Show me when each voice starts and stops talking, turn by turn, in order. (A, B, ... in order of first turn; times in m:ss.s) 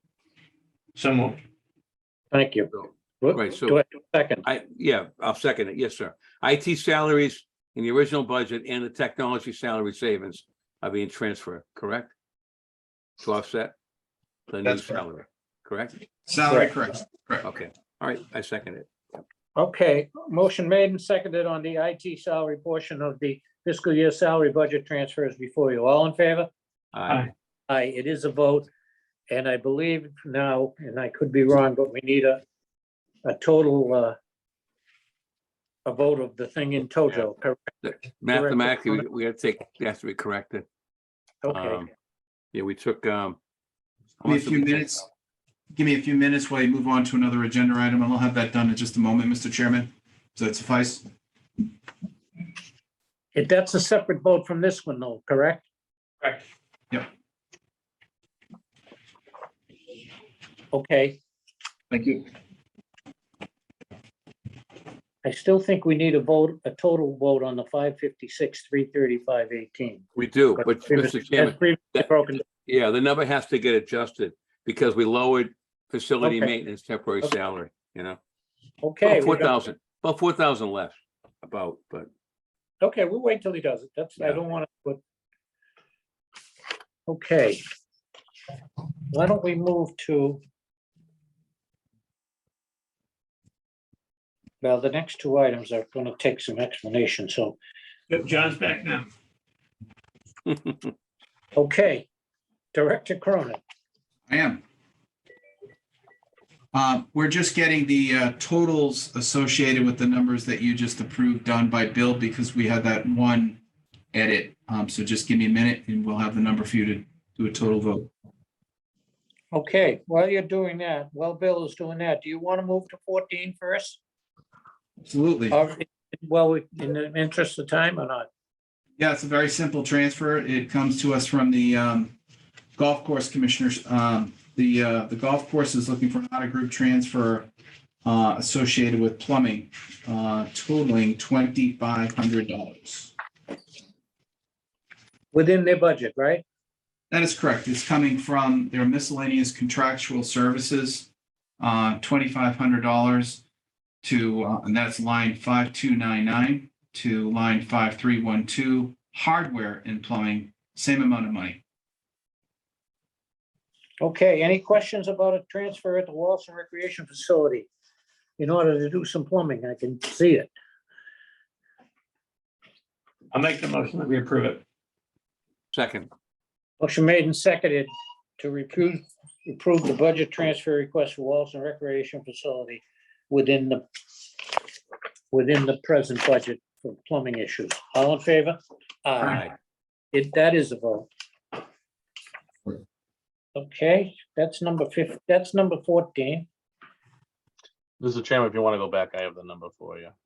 0:01.0-0:01.4 A
0:02.3-0:04.4 B
0:02.7-0:03.8 C
0:04.4-0:12.1 C
0:13.2-0:13.8 C
0:14.5-0:16.0 C
0:14.6-0:15.0 D
0:16.3-0:17.4 D
0:16.5-0:16.7 B
0:17.4-0:19.2 C
0:19.6-0:26.5 B
0:26.9-0:27.3 C
0:27.7-0:28.7 B
0:29.3-0:32.4 B
0:33.2-0:34.2 B
0:35.8-0:37.6 B
0:37.8-0:40.6 C
0:38.3-0:39.0 B
0:41.4-0:41.8 B
0:41.5-0:41.9 C
0:42.5-0:43.4 C
0:44.2-0:45.0 C
0:44.2-0:45.0 D
0:45.7-0:51.1 D
0:53.3-0:55.6 B
1:00.7-1:01.2 B
1:01.9-1:02.2 D
1:05.2-1:10.0 B
1:10.2-1:18.2 C
1:10.6-1:12.4 B
1:16.2-1:16.5 B
1:18.8-1:19.6 B
1:19.0-1:22.1 C
1:22.8-1:25.0 B
1:27.1-1:27.6 B
1:29.1-1:30.4 B
1:34.6-1:37.6 B
1:38.1-1:39.1 A
1:41.6-1:42.1 B
1:42.7-1:43.6 B
1:44.3-1:44.6 D
1:46.7-1:53.6 D
1:54.1-1:58.1 D
1:59.5-2:04.0 B
2:05.0-2:05.6 D
2:05.5-2:08.3 B
2:09.0-2:12.2 D
2:12.8-2:17.5 D
2:18.0-2:23.1 D
2:25.3-2:26.4 B
2:27.1-2:31.1 D
2:31.6-2:33.4 D
2:34.0-2:41.6 D
2:44.0-2:47.7 B
2:48.4-2:50.5 B
2:53.3-2:54.6 A
2:55.7-2:56.1 C
2:56.8-3:03.8 B
3:05.3-3:09.4 B
3:09.2-3:09.5 C
3:10.1-3:11.1 B
3:13.6-3:16.5 B
3:18.0-3:20.1 E